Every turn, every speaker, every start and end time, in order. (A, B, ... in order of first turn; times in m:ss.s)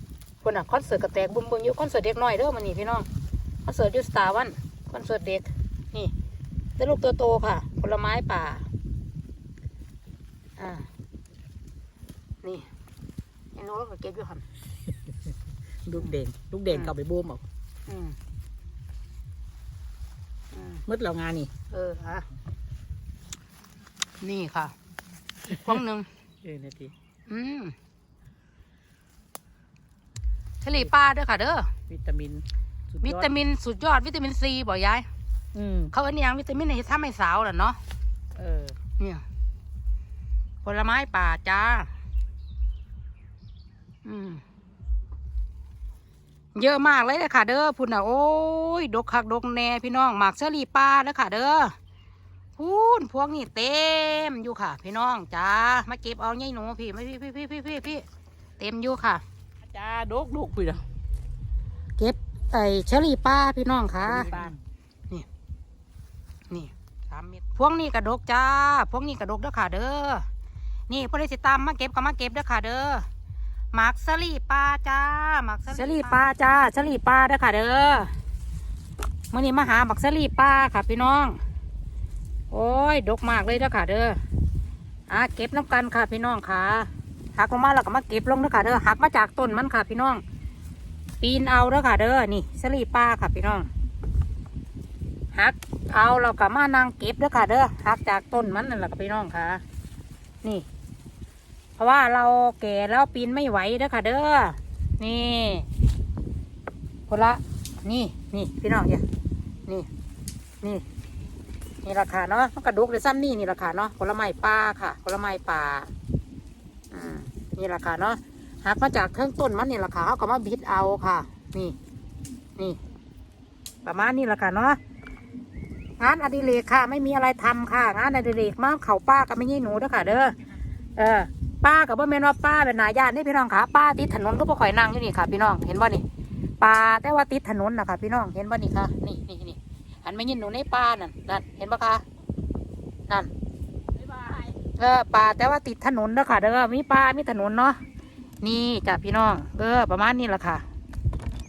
0:00.4-0:03.1 A
0:03.6-0:06.1 A
0:06.8-0:08.7 A
0:10.6-0:10.9 A
0:12.4-0:12.7 A
0:13.6-0:14.4 A
0:15.8-0:17.4 B
0:17.9-0:18.2 A
0:20.5-0:20.8 A
0:20.9-0:21.5 B
0:21.7-0:22.3 A
0:24.2-0:24.8 A
0:25.5-0:26.1 A
0:26.4-0:26.9 B
0:27.3-0:27.8 A
0:30.6-0:31.7 A
0:31.9-0:33.3 B
0:33.0-0:35.1 A
0:35.5-0:35.9 B
0:35.9-0:37.8 A
0:38.4-0:38.8 B
0:40.6-0:41.9 A
0:44.0-0:44.4 A
0:46.6-0:51.8 A
0:52.6-0:58.0 A
0:58.6-0:59.2 A
0:59.7-1:00.9 B
1:02.0-1:04.5 A
1:04.0-1:04.6 B
1:06.5-1:10.3 A
1:10.9-1:13.1 A
1:13.7-1:18.1 A
1:15.8-1:16.2 B
1:19.3-1:21.4 A
1:22.5-1:24.2 A
1:25.1-1:30.2 A
1:31.2-1:33.7 A
1:35.3-1:39.6 A
1:41.8-1:45.7 A
1:47.1-1:49.0 A
1:51.8-1:55.9 A
1:56.9-2:01.8 A
2:03.8-2:04.8 A
2:06.0-2:10.4 A
2:11.0-2:16.0 A
2:16.6-2:22.0 A
2:24.1-2:24.6 B
2:24.8-2:27.8 A
2:28.4-2:30.6 A